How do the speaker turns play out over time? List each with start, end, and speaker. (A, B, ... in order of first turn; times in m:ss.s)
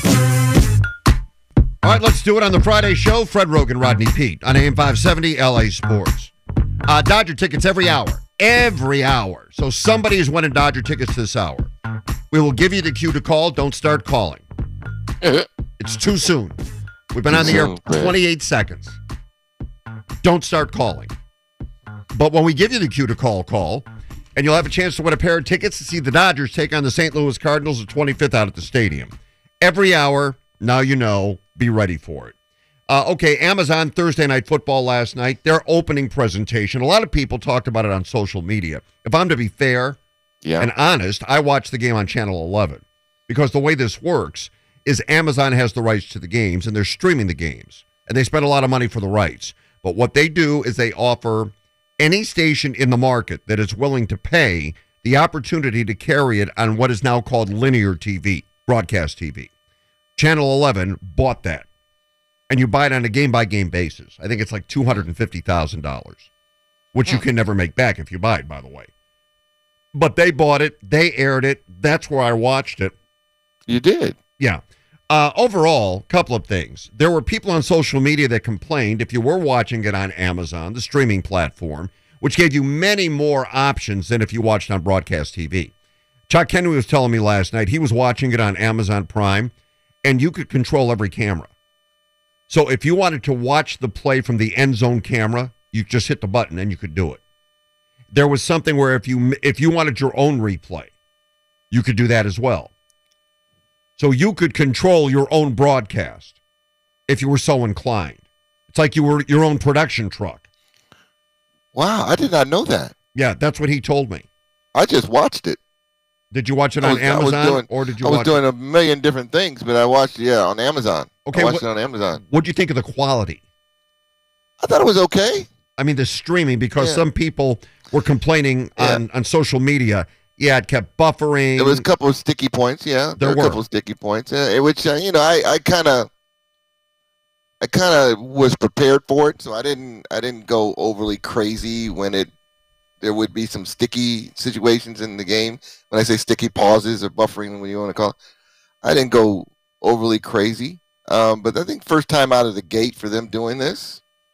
0:01.8-0:06.3 A
0:06.9-0:11.7 A
0:12.3-0:14.4 A
0:15.2-0:15.5 B
0:15.8-0:16.6 A
0:17.1-0:19.0 A
0:17.3-0:18.2 B
0:20.2-0:21.1 A
0:22.1-0:32.3 A
0:32.9-0:40.0 A
0:40.4-0:40.7 B
0:40.6-0:59.5 A
1:00.2-1:01.6 A
1:02.5-1:06.3 A
1:06.9-1:08.9 A
1:09.9-1:12.9 A
1:13.7-1:14.2 B
1:14.4-1:25.7 A
1:26.3-1:29.5 A
1:30.0-1:31.5 A
1:32.5-1:37.2 A
1:38.1-1:40.9 A
1:41.7-1:42.7 A
1:44.0-1:46.3 A
1:47.1-1:50.4 A
1:51.7-1:52.9 B
1:53.1-1:54.2 A
1:54.7-1:55.6 B
1:56.3-1:58.4 A
1:56.8-2:02.2 B
2:01.3-2:01.6 A
2:02.2-2:03.4 A
2:04.6-2:05.5 B
2:05.8-2:11.8 A
2:06.8-2:07.0 B
2:11.6-2:16.1 B
2:13.2-2:13.6 A
2:17.6-2:22.3 B
2:23.0-2:28.2 B
2:28.8-2:34.0 B